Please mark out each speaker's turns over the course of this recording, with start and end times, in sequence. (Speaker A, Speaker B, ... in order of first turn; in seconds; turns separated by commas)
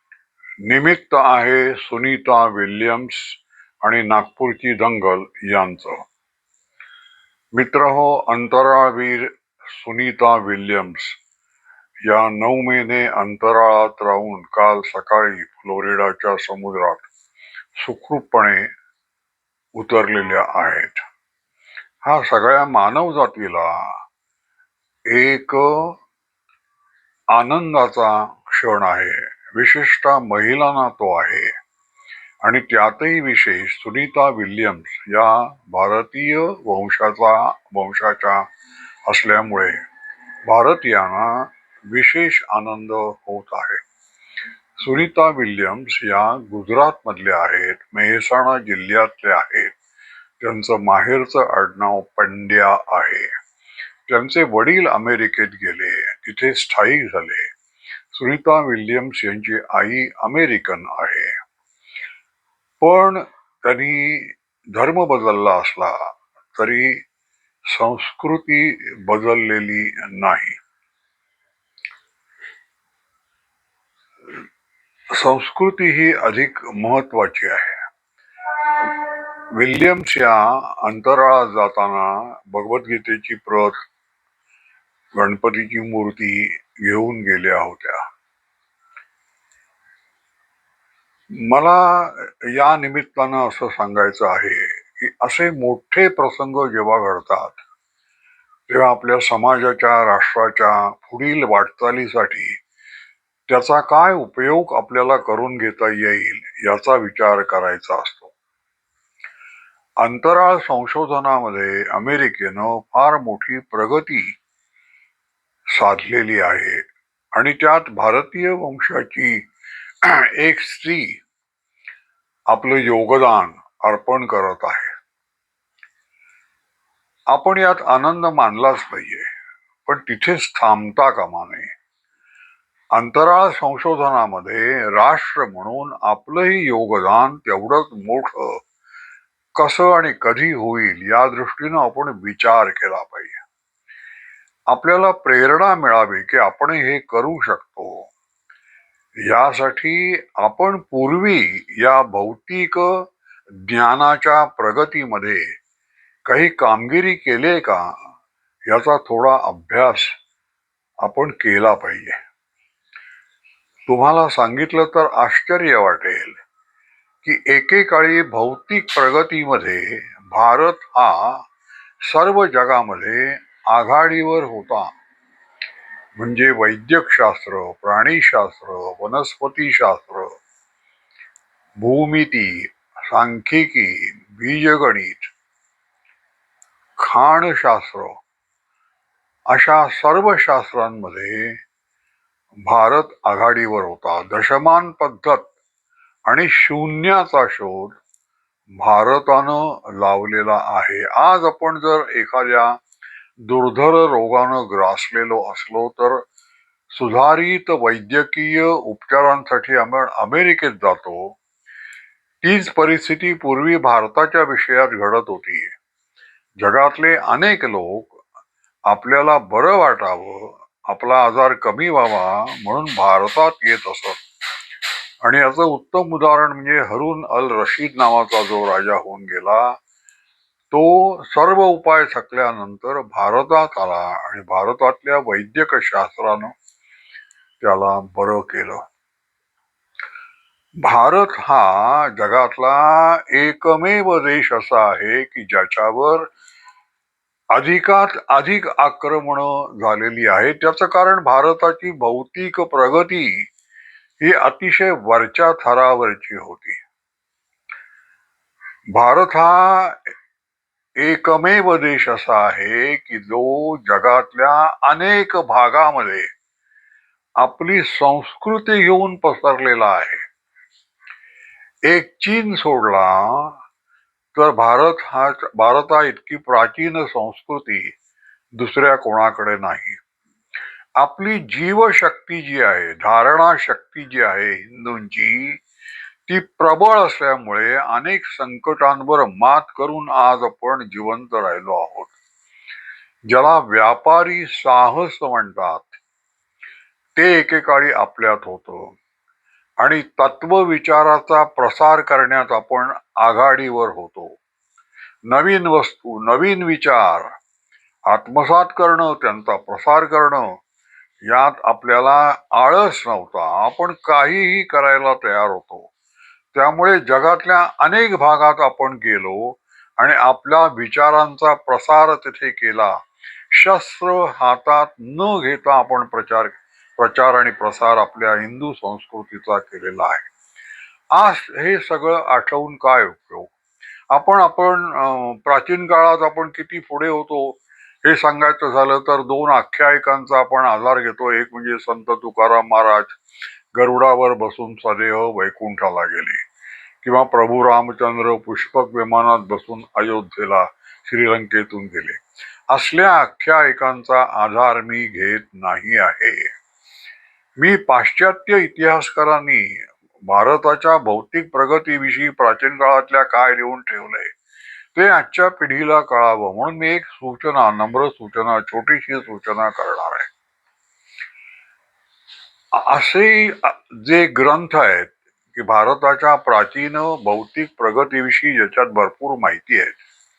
Speaker A: 0.6-6.0, Speaker A: 7.6-11.2, Speaker A: 12.1-17.1, Speaker A: 17.8-18.7, Speaker A: 19.8-21.0, Speaker A: 22.0-23.8, Speaker A: 25.1-25.9, Speaker A: 27.3-31.5, Speaker A: 32.4-38.4, Speaker A: 39.1-39.8, Speaker A: 40.5-43.8, Speaker A: 44.8-49.7, Speaker A: 50.4-53.3, Speaker A: 54.1-57.5, Speaker A: 58.1-61.3, Speaker A: 62.8-67.0, Speaker A: 67.7-70.6, Speaker A: 75.2-77.8, Speaker A: 78.8-83.8, Speaker A: 85.2-88.0, Speaker A: 91.3-97.6, Speaker A: 98.7-102.6, Speaker A: 103.5-108.3, Speaker A: 110.0-114.3, Speaker A: 115.8-116.8, Speaker A: 117.3-119.4, Speaker A: 120.0-121.2, Speaker A: 122.5-124.9, Speaker A: 127.3-129.2, Speaker A: 129.9-131.7, Speaker A: 133.0-138.6, Speaker A: 139.6-143.4, Speaker A: 144.7-148.1, Speaker A: 149.3-152.9, Speaker A: 153.6-155.4, Speaker A: 156.3-157.9, Speaker A: 158.7-160.1, Speaker A: 161.0-162.2, Speaker A: 163.9-166.4, Speaker A: 167.2-171.4, Speaker A: 172.1-174.9, Speaker A: 176.2-180.3, Speaker A: 181.8-185.3, Speaker A: 187.0-188.2, Speaker A: 189.5-191.5, Speaker A: 192.7-195.5, Speaker A: 196.3-198.0, Speaker A: 198.8-202.7, Speaker A: 203.4-206.2, Speaker A: 206.9-211.3, Speaker A: 212.4-215.7, Speaker A: 216.6-218.2, Speaker A: 218.9-224.2, Speaker A: 225.2-229.8, Speaker A: 230.7-236.5, Speaker A: 237.6-238.8, Speaker A: 240.8-246.3, Speaker A: 247.6-253.3, Speaker A: 254.2-256.8, Speaker A: 259.0-260.1, Speaker A: 261.0-266.3, Speaker A: 267.4-270.2, Speaker A: 271.9-273.6, Speaker A: 274.4-277.9, Speaker A: 278.6-280.0, Speaker A: 281.0-285.6, Speaker A: 286.3-292.1, Speaker A: 293.3-296.0, Speaker A: 297.2-298.9, Speaker A: 299.8-304.3, Speaker A: 305.3-307.3, Speaker A: 308.1-310.5, Speaker A: 311.3-315.9, Speaker A: 316.6-319.4, Speaker A: 320.0-322.9, Speaker A: 323.5-330.3, Speaker A: 331.2-333.5, Speaker A: 334.1-343.2, Speaker A: 343.8-346.4, Speaker A: 347.0-352.2, Speaker A: 352.7-356.5, Speaker A: 357.6-364.3, Speaker A: 364.9-370.3, Speaker A: 372.7-380.0